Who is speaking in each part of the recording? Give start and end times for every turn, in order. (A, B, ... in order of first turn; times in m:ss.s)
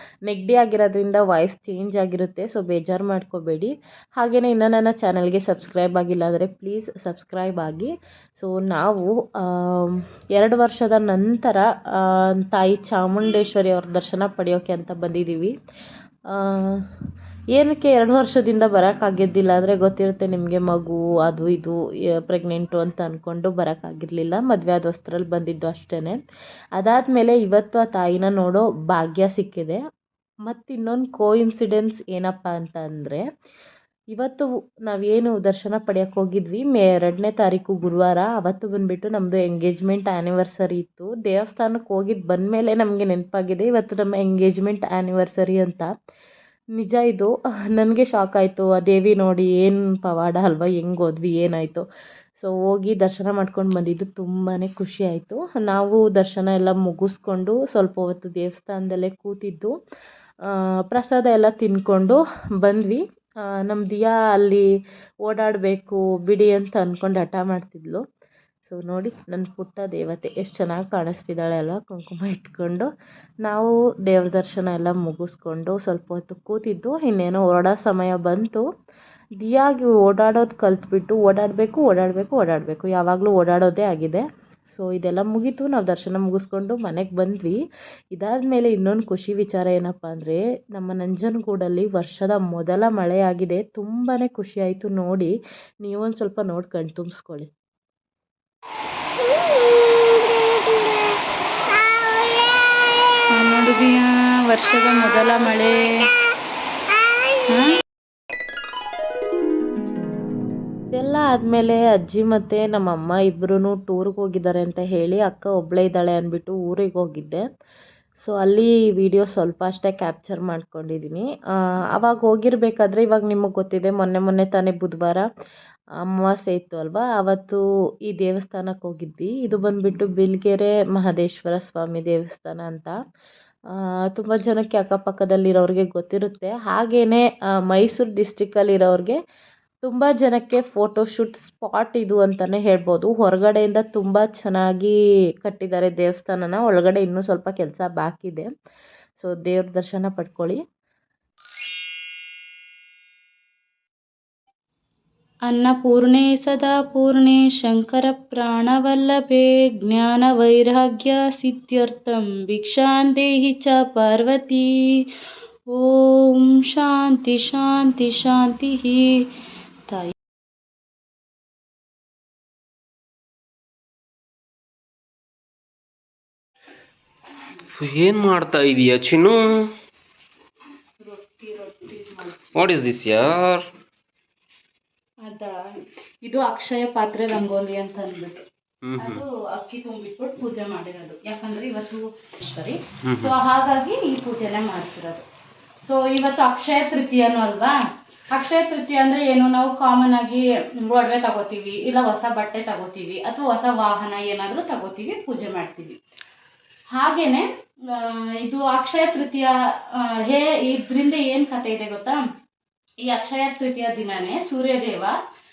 0:00.3-0:15.5 A
0:16.3-0:16.9 A
0:17.6-0:26.2 A
0:26.8-0:29.8 A
0:30.5-0:33.2 A
0:34.2-0:45.9 A
0:46.8-0:51.8 A
0:52.4-0:59.7 A
1:00.5-1:04.7 A
1:05.3-1:08.0 A
1:08.7-1:12.9 A
1:13.4-1:18.6 A
1:19.4-1:27.6 A
1:28.2-1:35.3 A
1:35.8-1:37.5 A
1:43.3-1:46.1 B
1:47.5-1:47.8 B
1:51.0-1:57.5 A
1:58.2-2:01.3 A
2:02.0-2:05.3 A
2:06.0-2:13.0 A
2:13.7-2:19.2 A
2:19.8-2:28.5 A
2:29.2-2:30.6 A
2:35.5-2:45.0 B
2:45.7-2:49.2 B
2:49.9-2:50.1 B
2:57.8-2:59.7 C
3:01.0-3:02.4 B
3:02.6-3:03.6 C
3:05.2-3:05.6 B
3:06.2-3:08.4 B
3:08.8-3:09.2 C
3:09.0-3:15.2 B
3:13.0-3:13.3 C
3:15.8-3:17.8 B
3:18.3-3:26.0 B
3:26.9-3:32.2 B
3:33.1-3:35.1 B